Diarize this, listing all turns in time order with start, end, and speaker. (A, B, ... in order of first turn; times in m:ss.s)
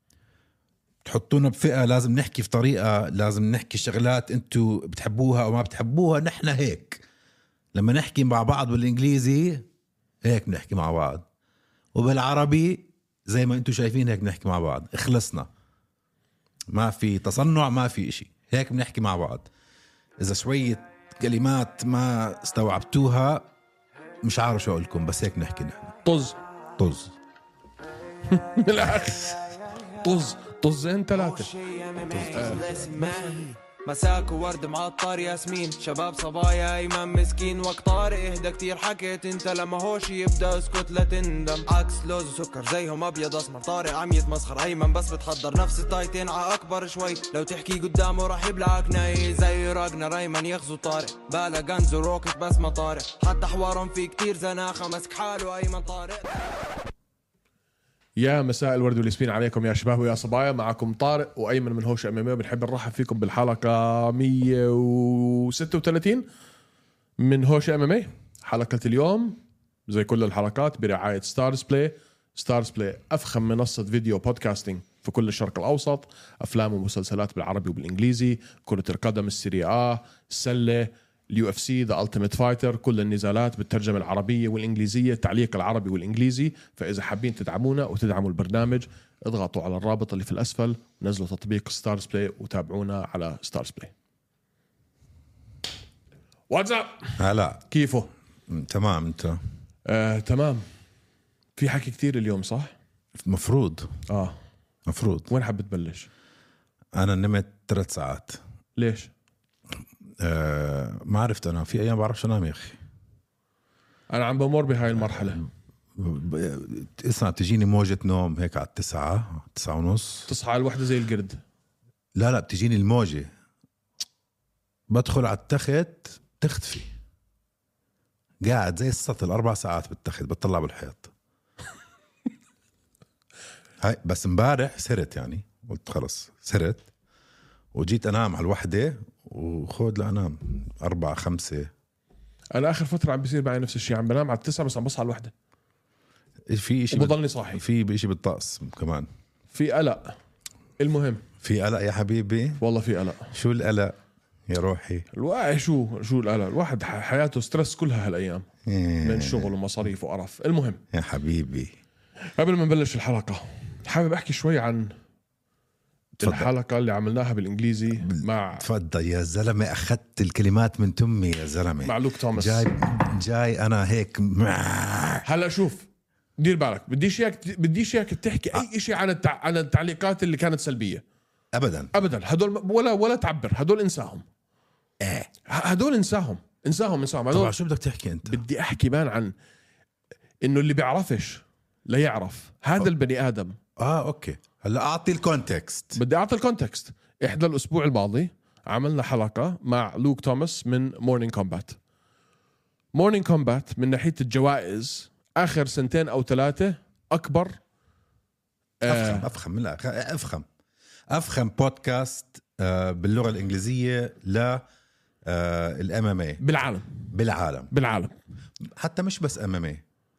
0:01.0-0:07.0 A
0:07.7-0:09.7 A
0:10.2-0:11.2 A
0:12.0-0:15.5 A
0:16.7-0:19.5 A
0:20.2-0:23.5 A
0:24.2-0:26.0 A
0:26.0-0:26.4 B
0:26.8-0:27.1 A
0:28.3-0:31.5 B
0:31.2-0:56.4 C
0:32.1-0:32.8 A
0:32.3-0:32.6 B
0:58.2-1:06.3 B
1:07.2-1:33.9 B
1:36.5-1:38.1 B
1:37.2-1:37.6 A
1:38.5-1:39.4 A
1:39.9-1:40.6 B
1:41.6-1:42.7 B
1:43.2-1:43.9 A
1:44.1-1:44.4 B
1:44.9-1:45.3 A
1:45.3-1:46.1 B
1:47.0-1:48.4 A
1:48.8-1:49.1 B
1:50.2-1:52.8 A
1:54.1-1:55.4 B
1:55.0-2:00.3 A
2:00.3-2:01.4 B
2:02.2-2:03.3 A
2:04.9-2:06.9 A
2:08.4-2:11.1 A
2:13.8-2:16.9 A
2:17.7-2:21.7 A
2:22.5-2:25.3 B
2:26.5-2:29.1 A
2:26.9-2:27.6 B
2:29.5-2:30.2 B
2:30.8-2:31.2 B
2:31.4-2:32.6 A
2:32.6-2:33.3 B
2:33.3-2:34.0 A
2:34.5-2:35.1 A
2:35.1-2:38.5 B
2:38.7-2:39.5 A
2:39.0-2:40.8 B
2:40.9-2:41.7 A
2:42.2-2:44.9 B
2:46.2-2:46.5 A
2:46.2-2:48.6 B
2:48.0-2:55.3 A
2:51.8-2:52.7 B
2:55.3-2:55.9 B
2:56.4-3:01.0 B
3:01.6-3:01.9 A
3:01.9-3:04.2 B
3:05.0-3:05.3 A
3:05.5-3:07.5 B
3:07.3-3:08.4 A
3:08.3-3:09.3 B
3:10.4-3:13.6 B
3:13.8-3:16.0 A
3:16.0-3:21.8 B
3:22.9-3:27.6 B
3:28.8-3:29.2 B
3:28.8-3:30.4 A
3:31.1-3:34.6 A
3:35.3-3:36.4 A
3:36.4-3:36.9 B
3:37.1-3:37.7 A
3:37.7-3:38.2 B
3:38.8-3:39.8 A